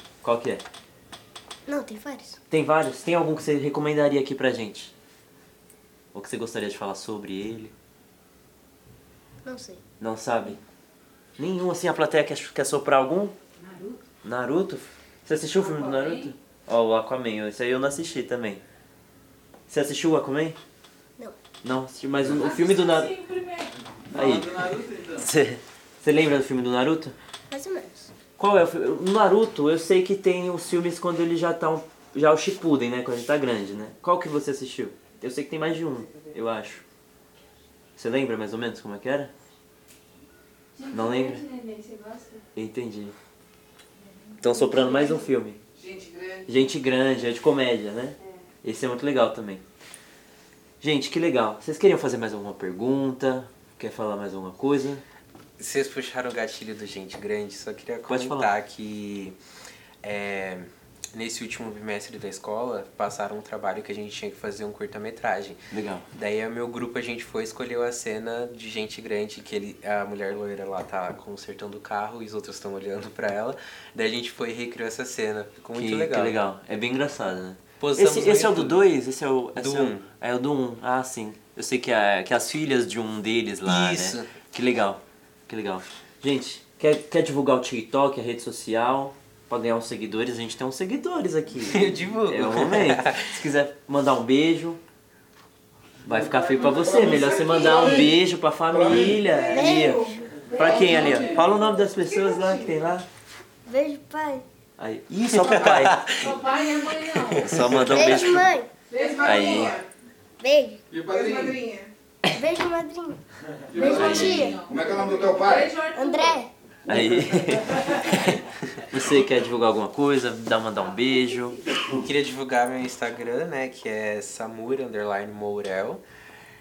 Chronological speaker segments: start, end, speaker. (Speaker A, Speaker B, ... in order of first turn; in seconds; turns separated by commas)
Speaker A: 0.2-0.7, Speaker B: 1.7-2.4, Speaker A: 2.5-4.9, Speaker A: 6.1-7.7, Speaker B: 9.4-9.8, Speaker A: 10.0-10.6, Speaker A: 11.4-13.4, Speaker C: 13.6-14.0, Speaker A: 14.2-18.6, Speaker C: 15.6-16.3, Speaker A: 19.7-20.6, Speaker A: 21.6-23.3, Speaker C: 22.6-23.7, Speaker A: 24.1-27.2, Speaker B: 27.5-28.1, Speaker A: 28.4-36.8, Speaker A: 38.0-39.3, Speaker C: 40.8-42.4, Speaker A: 40.8-41.5, Speaker A: 42.5-43.1, Speaker A: 44.4-45.6, Speaker C: 45.8-46.4, Speaker A: 46.5-49.6, Speaker A: 50.8-55.0, Speaker D: 55.6-59.4, Speaker A: 58.1-58.5, Speaker D: 60.0-76.4, Speaker A: 65.7-66.1, Speaker A: 75.7-94.8, Speaker D: 77.8-78.8, Speaker D: 79.5-80.1, Speaker D: 83.7-84.3, Speaker D: 91.6-93.2, Speaker A: 96.0-103.1, Speaker C: 96.6-98.0, Speaker E: 97.2-97.7, Speaker E: 98.8-99.2, Speaker C: 99.3-102.7, Speaker B: 99.5-101.4, Speaker B: 103.7-104.5, Speaker A: 104.8-106.3, Speaker D: 105.3-107.9, Speaker C: 106.2-107.4, Speaker A: 107.4-108.5, Speaker B: 107.9-109.0, Speaker C: 108.9-109.9, Speaker A: 109.2-109.8, Speaker B: 110.4-110.8, Speaker E: 110.9-111.6, Speaker C: 111.0-111.9, Speaker B: 112.3-114.7, Speaker C: 113.8-116.4, Speaker A: 113.8-114.5, Speaker D: 113.9-114.3, Speaker E: 114.7-115.7, Speaker B: 115.9-116.5, Speaker A: 116.9-121.6, Speaker D: 121.9-126.0